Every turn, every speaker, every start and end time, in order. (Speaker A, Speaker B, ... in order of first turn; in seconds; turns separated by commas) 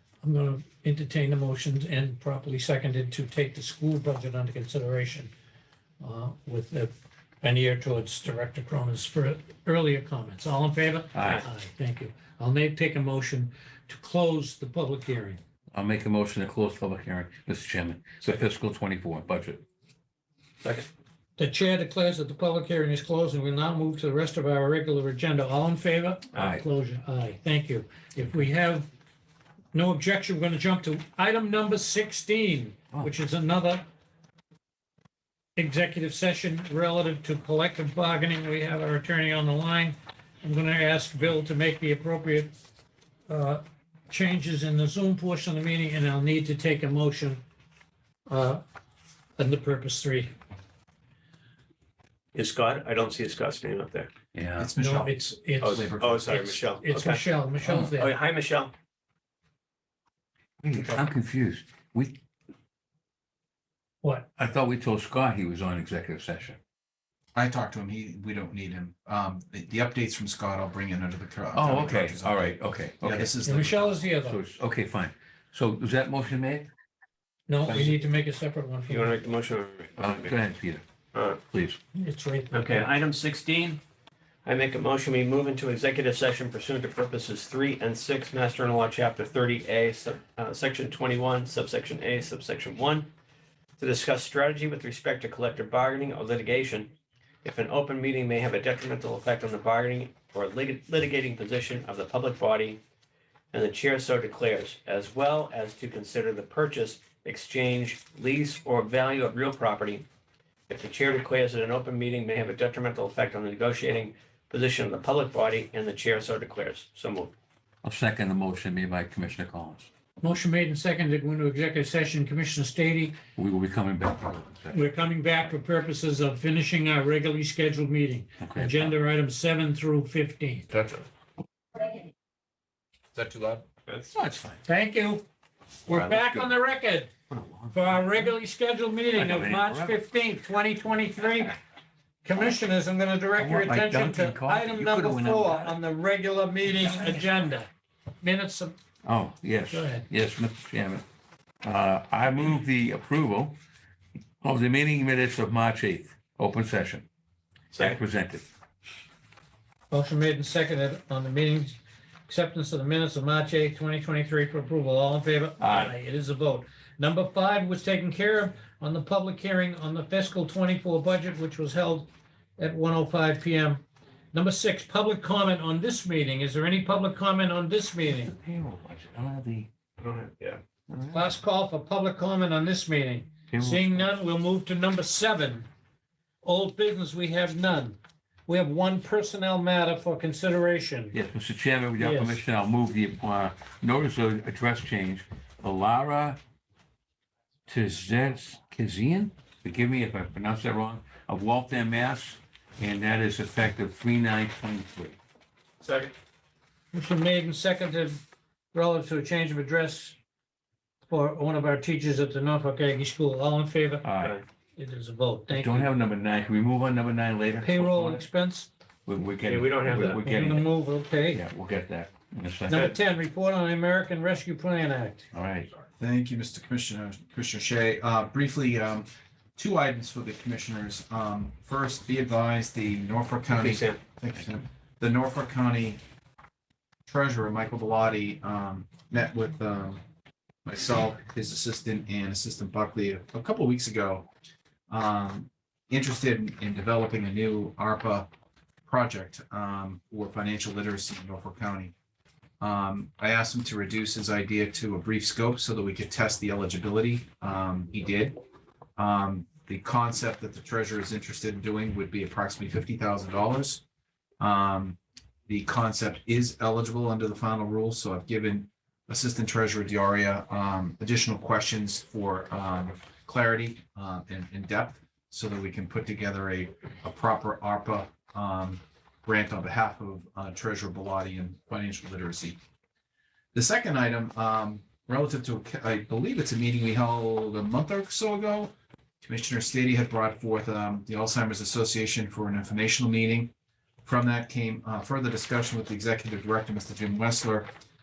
Speaker A: 0.2-5.3, Speaker A: 6.0-6.9, Speaker A: 7.4-15.4, Speaker B: 11.1-11.4, Speaker B: 15.7-19.6, Speaker C: 20.6-20.9, Speaker A: 21.4-28.9, Speaker B: 26.4-26.6, Speaker A: 29.7-33.8, Speaker A: 35.5-42.5, Speaker A: 43.3-47.4, Speaker A: 48.3-48.6, Speaker A: 49.4-50.3, Speaker C: 52.3-54.1, Speaker B: 54.3-54.7, Speaker D: 54.5-56.5, Speaker A: 54.8-58.1, Speaker C: 55.6-57.2, Speaker B: 57.6-57.9, Speaker C: 57.9-58.7, Speaker B: 60.6-62.2, Speaker A: 64.0-64.3, Speaker B: 64.4-66.6, Speaker D: 67.3-74.0, Speaker B: 71.5-73.2, Speaker A: 73.4-74.4, Speaker B: 74.1-76.7, Speaker A: 77.5-79.1, Speaker B: 77.6-78.0, Speaker C: 78.9-80.3, Speaker B: 80.0-80.8, Speaker C: 81.1-81.4, Speaker B: 81.4-81.8, Speaker A: 81.9-82.9, Speaker C: 82.5-83.8, Speaker C: 84.4-93.1, Speaker C: 93.8-102.8, Speaker C: 103.5-110.0, Speaker C: 110.7-117.3, Speaker B: 117.8-119.9, Speaker A: 120.2-123.1, Speaker B: 123.3-124.8, Speaker A: 124.7-130.7, Speaker B: 128.4-128.9, Speaker D: 133.1-133.6, Speaker C: 133.9-134.1, Speaker B: 134.1-134.6, Speaker A: 134.6-135.2, Speaker A: 135.8-137.1, Speaker B: 135.9-136.5, Speaker B: 137.3-138.3, Speaker A: 137.7-141.6, Speaker B: 139.1-139.9, Speaker A: 142.2-147.7, Speaker B: 143.4-145.8, Speaker B: 146.7-147.3, Speaker A: 148.2-148.8, Speaker B: 149.0-151.0, Speaker A: 149.7-150.1, Speaker B: 151.6-153.6, Speaker B: 154.4-157.1, Speaker C: 157.7-158.0, Speaker B: 157.8-158.5, Speaker A: 159.9-178.3, Speaker B: 165.6-165.9, Speaker B: 178.2-179.7, Speaker C: 180.0-180.6, Speaker B: 180.9-181.3, Speaker A: 181.1-185.7, Speaker B: 183.5-184.0, Speaker A: 186.4-191.2, Speaker B: 191.1-196.4, Speaker A: 192.0-192.4, Speaker B: 197.7-205.2, Speaker C: 205.8-206.1, Speaker A: 206.9-208.2, Speaker A: 208.7-210.2, Speaker A: 211.1-214.1, Speaker B: 214.0-214.3, Speaker C: 214.2-214.4, Speaker A: 214.8-215.9, Speaker B: 215.5-218.2, Speaker A: 217.6-218.7, Speaker B: 219.1-222.9, Speaker C: 219.4-220.2, Speaker A: 219.8-221.4, Speaker A: 222.7-225.3, Speaker B: 225.3-225.7, Speaker D: 226.0-236.0, Speaker C: 233.5-234.0, Speaker D: 237.1-240.0, Speaker D: 240.6-244.3, Speaker D: 244.9-248.3, Speaker D: 248.8-251.9, Speaker D: 252.6-258.4, Speaker D: 259.0-263.8, Speaker D: 264.4-282.6, Speaker D: 283.5-288.7, Speaker D: 289.2-293.5, Speaker D: 294.0-297.7